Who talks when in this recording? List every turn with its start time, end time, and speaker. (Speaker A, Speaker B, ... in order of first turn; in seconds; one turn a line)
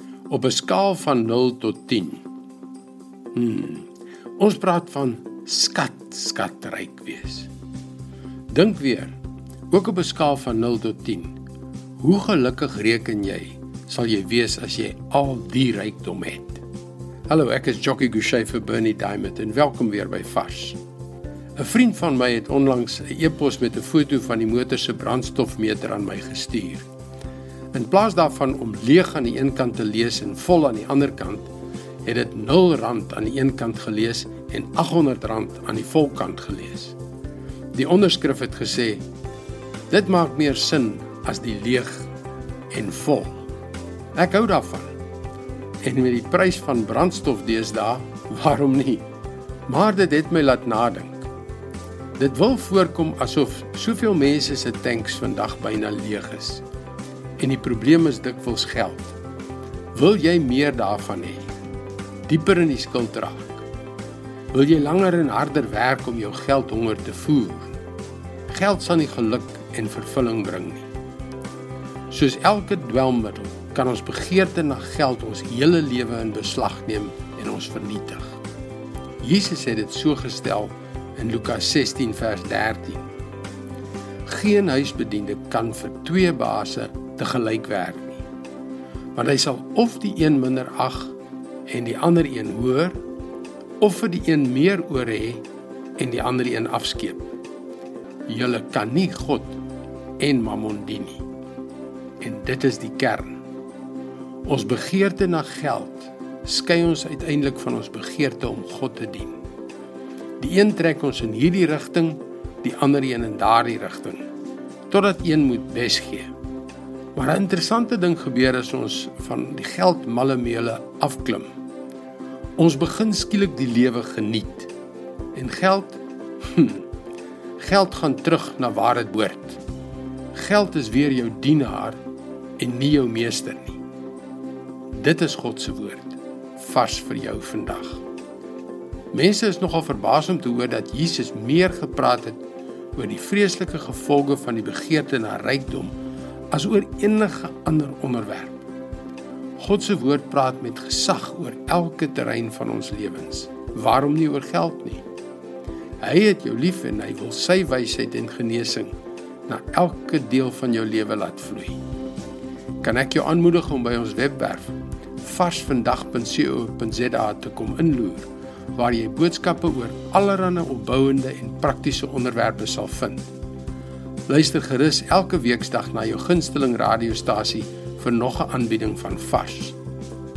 Speaker A: 0.3-2.2
Speaker A: 3.3-7.5
Speaker A: 8.5-9.1
Speaker A: 9.7-11.4
Speaker A: 12.0-16.6
Speaker A: 17.3-20.8
Speaker A: 21.6-26.9
Speaker A: 27.7-31.5
Speaker A: 32.0-37.0
Speaker A: 37.7-39.0
Speaker A: 39.9-42.1
Speaker A: 42.7-43.4
Speaker A: 44.1-44.9
Speaker A: 45.8-49.0
Speaker A: 49.7-51.2
Speaker A: 52.2-56.6
Speaker A: 57.4-59.1
Speaker A: 59.9-61.5
Speaker A: 62.3-63.6
Speaker A: 64.5-67.7
Speaker A: 68.5-70.9
Speaker A: 72.1-78.4
Speaker A: 79.2-83.1
Speaker A: 84.2-88.2
Speaker A: 89.1-91.1
Speaker A: 91.7-93.0
Speaker A: 93.8-95.4
Speaker A: 96.0-97.3
Speaker A: 98.3-99.6
Speaker A: 100.2-101.2
Speaker A: 102.2-103.4
Speaker A: 104.4-109.4
Speaker A: 110.4-114.2
Speaker A: 114.9-116.3
Speaker A: 117.1-121.5
Speaker A: 122.6-124.7
Speaker A: 125.3-126.8
Speaker A: 127.6-129.6
Speaker A: 130.3-132.0
Speaker A: 132.6-133.8
Speaker A: 134.9-138.0
Speaker A: 139.1-142.4
Speaker A: 142.9-145.9
Speaker A: 146.5-148.6
Speaker A: 149.6-155.0
Speaker A: 156.0-158.9
Speaker A: 159.5-161.8
Speaker A: 162.8-173.3
Speaker A: 174.3-179.8